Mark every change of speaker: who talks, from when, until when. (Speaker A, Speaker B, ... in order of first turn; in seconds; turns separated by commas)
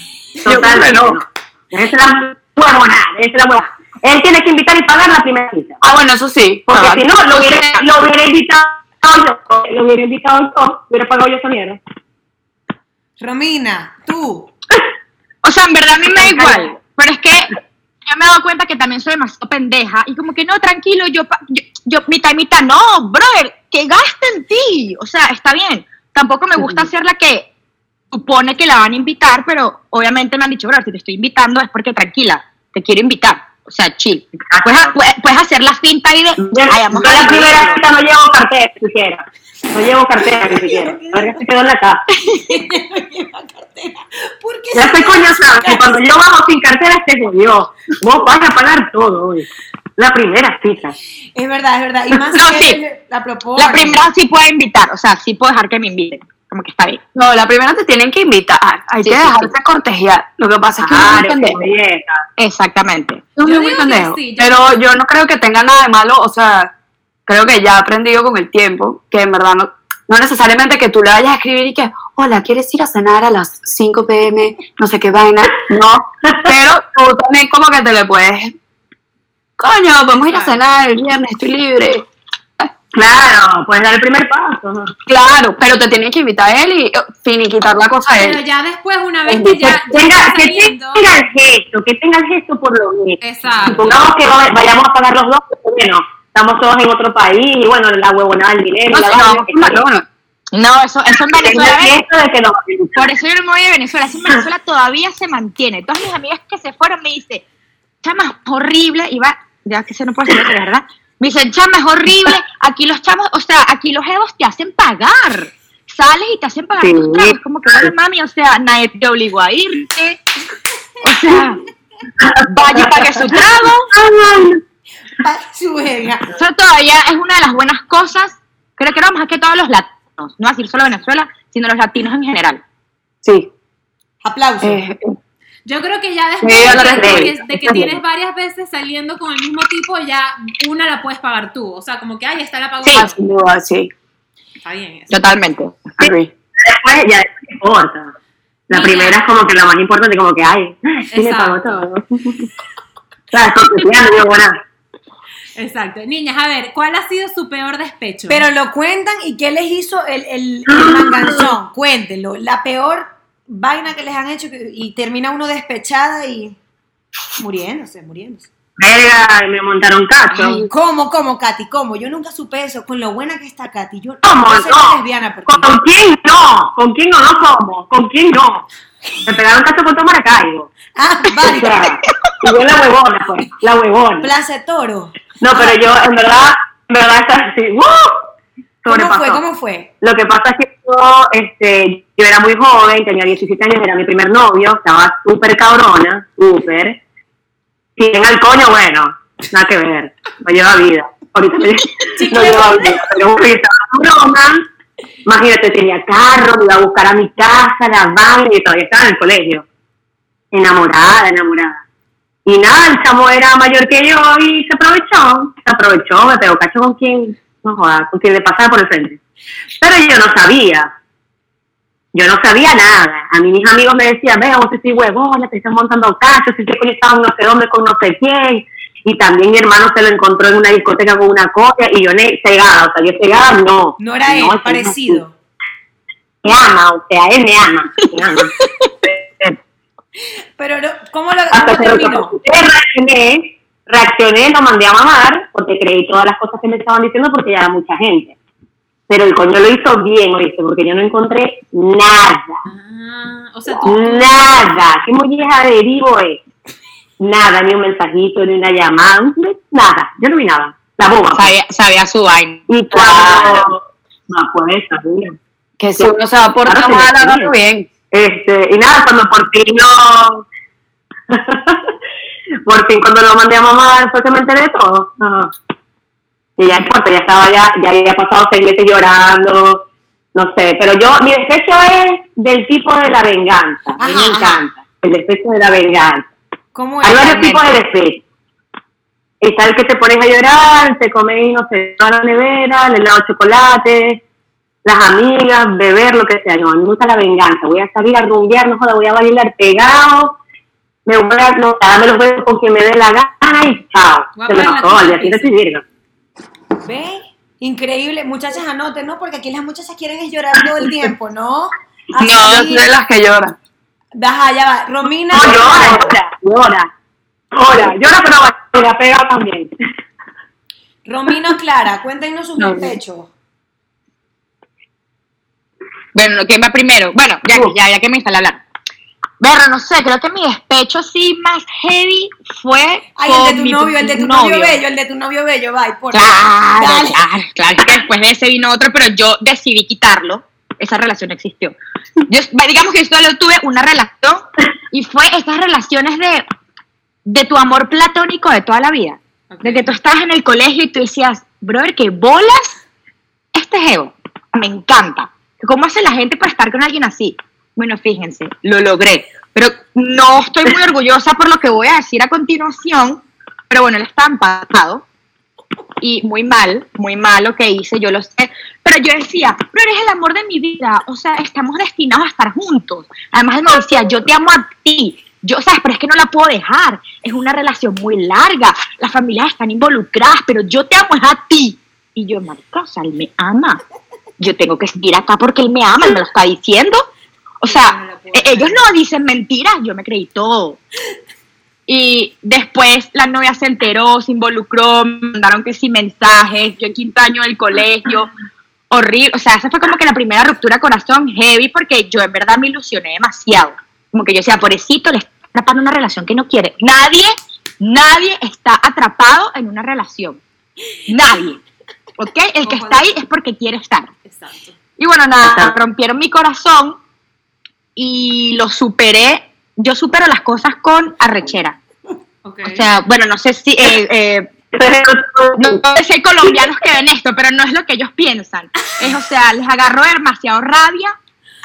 Speaker A: 0.4-5.8, Speaker B: 0.5-1.2, Speaker B: 5.8-7.6, Speaker A: 6.7-11.8, Speaker C: 13.2-14.5, Speaker D: 15.4-27.5, Speaker A: 16.1-16.7, Speaker D: 28.1-37.8, Speaker A: 34.5-34.9, Speaker A: 36.4-42.0, Speaker C: 40.5-41.2, Speaker D: 42.2-42.6, Speaker C: 42.4-46.0, Speaker A: 44.7-51.0, Speaker C: 51.3-54.0, Speaker D: 52.3-52.8, Speaker D: 53.5-57.0, Speaker B: 57.1-61.6, Speaker D: 59.0-59.5, Speaker A: 60.8-62.2, Speaker D: 62.4-63.2, Speaker B: 63.4-66.7, Speaker E: 63.4-64.8, Speaker B: 67.3-78.5, Speaker B: 79.6-82.0, Speaker E: 80.3-80.6, Speaker A: 82.9-84.9, Speaker B: 85.1-88.4, Speaker E: 88.2-91.0, Speaker B: 89.3-89.8, Speaker A: 89.6-99.8, Speaker E: 93.2-93.9, Speaker B: 98.9-100.0, Speaker D: 100.5-102.0, Speaker A: 101.3-103.0, Speaker D: 103.0-107.4, Speaker D: 108.0-120.2, Speaker A: 116.8-117.8, Speaker D: 121.0-121.6, Speaker A: 122.2-123.3, Speaker D: 122.4-123.9, Speaker A: 123.9-124.6, Speaker C: 125.2-126.2, Speaker D: 126.3-132.6, Speaker B: 133.2-133.5, Speaker C: 134.2-134.8, Speaker B: 134.6-135.2, Speaker E: 135.7-143.2, Speaker B: 136.4-138.0, Speaker A: 136.8-137.3, Speaker B: 142.9-143.9, Speaker E: 144.6-145.2, Speaker D: 145.1-146.1, Speaker B: 146.0-146.3, Speaker A: 146.6-148.1, Speaker A: 148.7-152.4, Speaker E: 148.7-149.2, Speaker E: 151.1-151.8, Speaker A: 153.3-154.6, Speaker E: 155.6-158.4, Speaker C: 158.3-166.6, Speaker A: 160.7-161.5, Speaker C: 167.4-168.5, Speaker A: 168.8-170.7, Speaker C: 170.7-175.7, Speaker A: 174.2-178.7, Speaker A: 179.2-180.7, Speaker C: 180.9-182.0, Speaker A: 181.4-184.3, Speaker C: 184.2-185.8, Speaker A: 185.4-188.2, Speaker A: 188.8-189.4, Speaker C: 188.9-189.9, Speaker A: 190.0-197.0, Speaker A: 198.0-204.6, Speaker E: 202.2-202.9, Speaker C: 202.3-202.8, Speaker A: 205.2-209.6, Speaker A: 210.5-211.8, Speaker A: 212.4-219.2, Speaker A: 219.8-220.9, Speaker A: 222.1-235.2, Speaker C: 234.0-235.3, Speaker A: 236.4-238.5, Speaker D: 238.0-238.7, Speaker A: 239.0-239.6, Speaker C: 240.6-242.3, Speaker A: 241.5-248.3, Speaker A: 249.1-252.6, Speaker E: 252.7-254.9, Speaker A: 253.8-256.4, Speaker A: 257.2-261.5, Speaker D: 261.3-262.6, Speaker A: 262.7-265.4, Speaker B: 262.9-263.7, Speaker B: 265.8-267.9, Speaker A: 266.6-267.5, Speaker A: 268.1-270.4, Speaker A: 271.3-271.9, Speaker A: 272.6-275.5, Speaker A: 276.6-286.3, Speaker C: 284.0-284.6, Speaker C: 286.7-287.6, Speaker A: 287.0-288.2, Speaker A: 289.4-294.2, Speaker A: 294.8-300.4, Speaker A: 301.1-305.8, Speaker E: 304.4-305.5, Speaker C: 306.8-312.9, Speaker B: 312.2-313.5, Speaker C: 314.2-316.1, Speaker A: 315.3-316.9, Speaker A: 317.5-319.7, Speaker C: 321.1-323.3, Speaker B: 322.6-323.0, Speaker D: 326.1-328.6, Speaker D: 329.4-334.8, Speaker C: 333.2-337.2, Speaker D: 336.1-341.8, Speaker D: 342.3-346.4, Speaker D: 347.2-352.8, Speaker E: 349.5-349.9, Speaker D: 353.5-365.0, Speaker D: 366.0-383.8, Speaker D: 384.4-387.1, Speaker D: 387.6-390.8, Speaker E: 387.7-388.8, Speaker D: 391.9-398.3, Speaker D: 398.9-410.4, Speaker D: 411.1-411.6, Speaker D: 412.2-414.1, Speaker E: 412.6-413.1, Speaker E: 414.2-414.7, Speaker D: 415.0-417.0, Speaker A: 415.4-415.7, Speaker D: 417.9-421.8, Speaker E: 422.4-422.8, Speaker D: 422.6-424.5, Speaker A: 424.7-425.8, Speaker D: 425.6-431.1